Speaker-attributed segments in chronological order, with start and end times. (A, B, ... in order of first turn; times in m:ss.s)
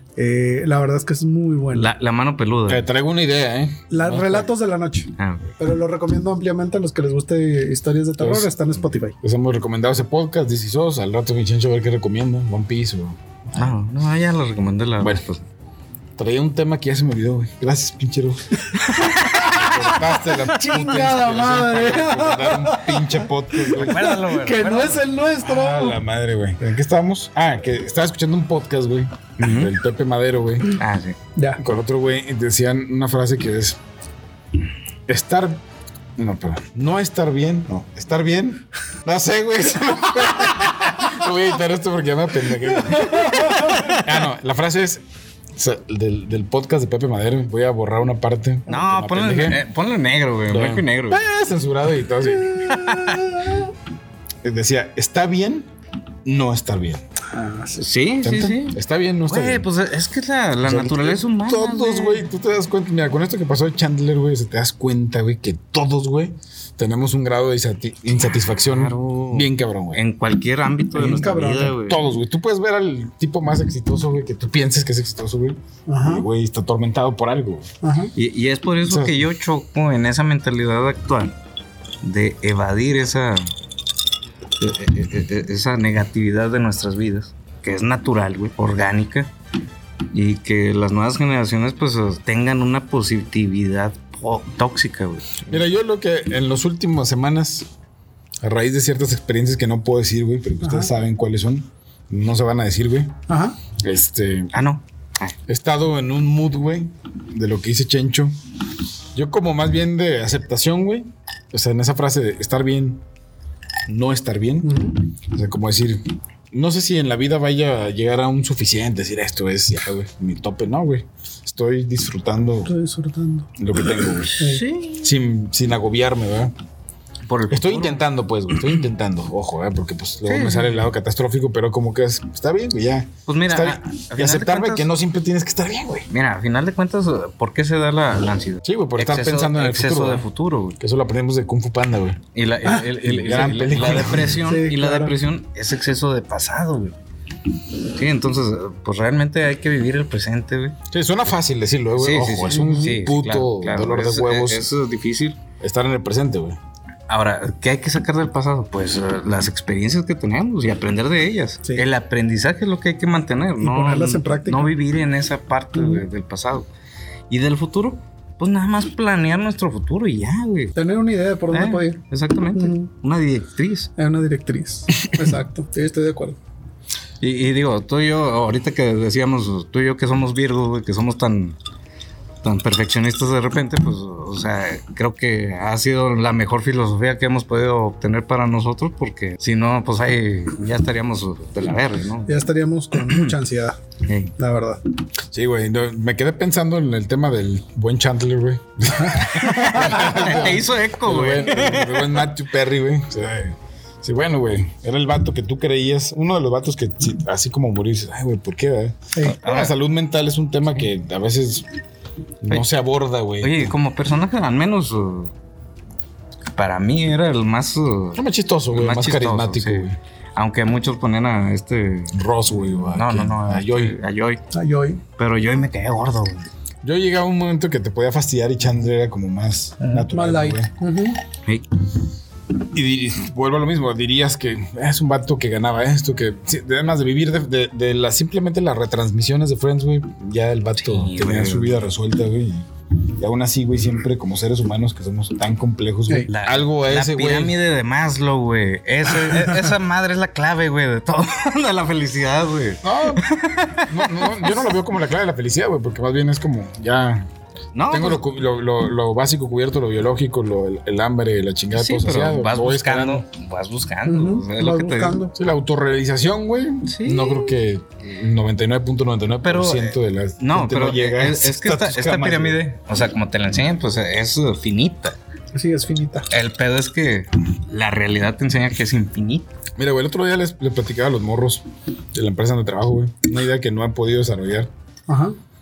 0:00.2-0:01.9 A
0:01.7-0:02.8 B
0:02.7-0:04.4 C
0:03.9-0:09.1 A
0:05.2-0:05.5 B
0:08.2-0:08.5 C
0:09.2-0:13.7 C
0:13.5-0:15.4 B
0:16.2-0:18.6 C
0:18.7-0:26.0 A
0:18.9-0:19.6 B
0:19.3-0:24.1 C
0:23.7-0:25.0 B
0:25.4-0:30.8 C
0:29.4-0:29.7 B
0:30.8-0:31.2 B
0:31.4-0:31.6 A
0:31.6-0:33.8 C
0:35.1-0:35.6 C
0:36.2-0:45.0 C
0:43.1-0:43.8 A
0:43.2-0:44.0 B
0:45.6-0:49.6 C
0:48.7-0:51.2 B
0:50.5-0:53.4 C
0:52.5-0:53.4 B
0:52.6-0:53.5 A
0:54.4-0:55.7 C
0:56.2-0:57.0 C
0:57.3-0:57.8 A
0:57.8-1:02.2 B
0:58.2-0:59.6 C
1:00.6-1:10.0 C
1:08.6-1:12.0 B
1:10.9-1:11.8 A
1:11.8-1:17.7 C
1:15.9-1:16.2 A
1:17.8-1:18.1 A
1:18.2-1:21.3 B
1:18.8-1:19.2 C
1:22.0-1:23.5 B
1:24.6-1:29.3 B
1:30.1-1:35.6 B
1:35.5-1:37.7 C
1:38.4-1:43.2 C
1:40.6-1:40.9 A
1:43.3-1:43.6 A
1:43.8-1:44.5 C
1:44.5-1:45.4 B
1:45.5-1:48.3 C
1:49.1-1:53.0 C
1:53.9-2:02.7 C
1:54.6-1:55.0 A
2:02.6-2:03.5 A
2:03.6-2:04.4 C
2:04.3-2:05.1 B
2:04.4-2:04.6 A
2:05.0-2:06.5 C
2:07.2-2:08.1 B
2:07.5-2:16.1 C
2:10.2-2:10.9 B
2:13.3-2:14.9 B
2:16.1-2:20.8 B
2:18.6-2:20.3 C
2:20.8-2:22.2 C
2:22.3-2:27.0 B
2:23.0-2:24.4 C
2:24.1-2:25.1 A
2:27.8-2:30.8 B
2:30.9-2:34.7 C
2:32.0-2:35.4 B
2:32.5-2:33.0 A
2:35.6-2:36.6 C
2:37.1-2:46.7 B
2:43.6-2:44.7 A
2:45.7-2:46.0 A
2:47.3-2:50.7 B
2:50.7-2:52.0 A
2:51.5-2:53.9 B
2:52.5-2:52.9 A
2:54.0-2:56.4 A
2:57.2-3:01.6 B
3:02.4-3:13.3 B
3:12.3-3:13.8 A
3:14.0-3:14.3 B
3:14.4-3:14.8 A
3:15.3-3:31.7 C
3:19.0-3:20.2 A
3:19.2-3:22.3 B
3:29.4-3:29.7 B
3:32.4-3:33.7 C
3:33.4-3:35.3 B
3:36.5-3:42.2 B
3:38.2-3:40.0 C
3:42.1-3:44.0 C
3:42.8-3:44.4 B
3:44.5-3:45.0 A
3:45.2-3:46.5 B
3:46.8-3:50.7 C
3:50.1-3:51.2 A
3:52.7-4:02.7 C
4:00.8-4:01.8 B
4:03.2-4:07.6 C
4:06.3-4:14.7 B
4:12.8-4:13.2 C
4:13.9-4:17.3 C
4:17.7-4:18.2 B
4:17.9-4:23.2 C
4:21.7-4:25.2 B
4:24.0-4:25.3 A
4:25.3-4:32.6 C
4:26.8-4:27.6 B
4:29.4-4:35.2 B
4:35.5-4:36.3 A
4:36.3-4:39.5 B
4:39.8-4:44.7 C
4:45.1-4:45.4 A